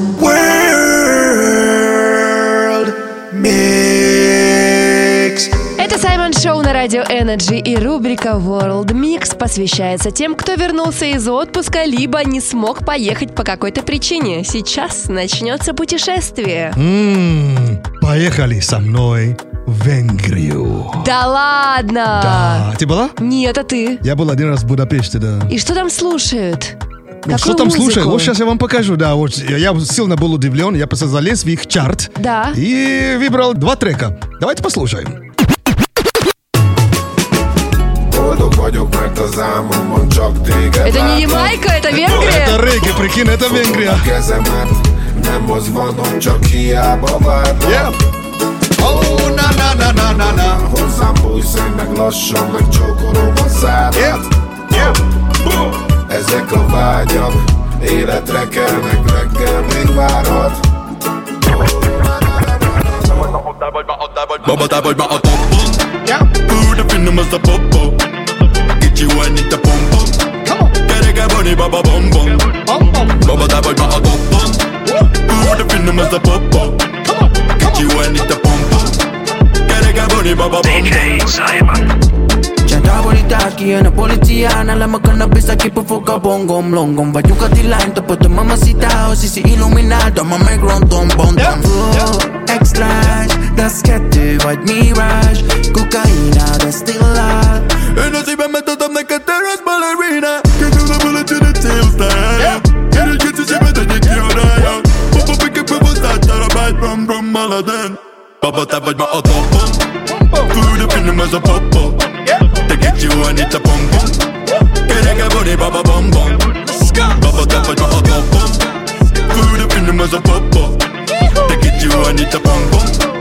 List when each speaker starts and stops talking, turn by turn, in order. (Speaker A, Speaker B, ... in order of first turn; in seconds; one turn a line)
Speaker A: 0.2-1.9
Speaker A: 2.7-5.5
Speaker B: 5.8-16.8
Speaker C: 16.8-21.1
Speaker B: 21.0-22.7
Speaker C: 22.2-23.1
Speaker B: 23.2-24.0
Speaker C: 24.0-25.5
Speaker B: 25.5-26.8
Speaker C: 27.2-35.2
Speaker B: 27.3-28.3
Speaker B: 32.2-32.6
Speaker D: 38.1-41.6
Speaker B: 40.8-42.6
Speaker C: 41.9-44.1
Speaker D: 43.5-47.9
Speaker C: 47.6-47.9
Speaker C: 48.8-50.6
Speaker D: 50.4-54.2
Speaker C: 53.9-55.0
Speaker D: 56.1-60.6
Speaker E: 63.4-68.0
Speaker E: 68.8-70.2
Speaker C: 70.5-70.7
Speaker E: 70.8-74.7
Speaker C: 72.7-73.1
Speaker E: 75.2-76.9
Speaker E: 77.6-78.9
Speaker E: 79.7-81.4
Speaker F: 82.6-97.7
Speaker E: 98.0-109.9
Speaker C: 110.1-110.5
Speaker E: 110.5-114.2
Speaker E: 114.8-118.6
Speaker E: 119.3-120.8
Speaker E: 121.4-123.0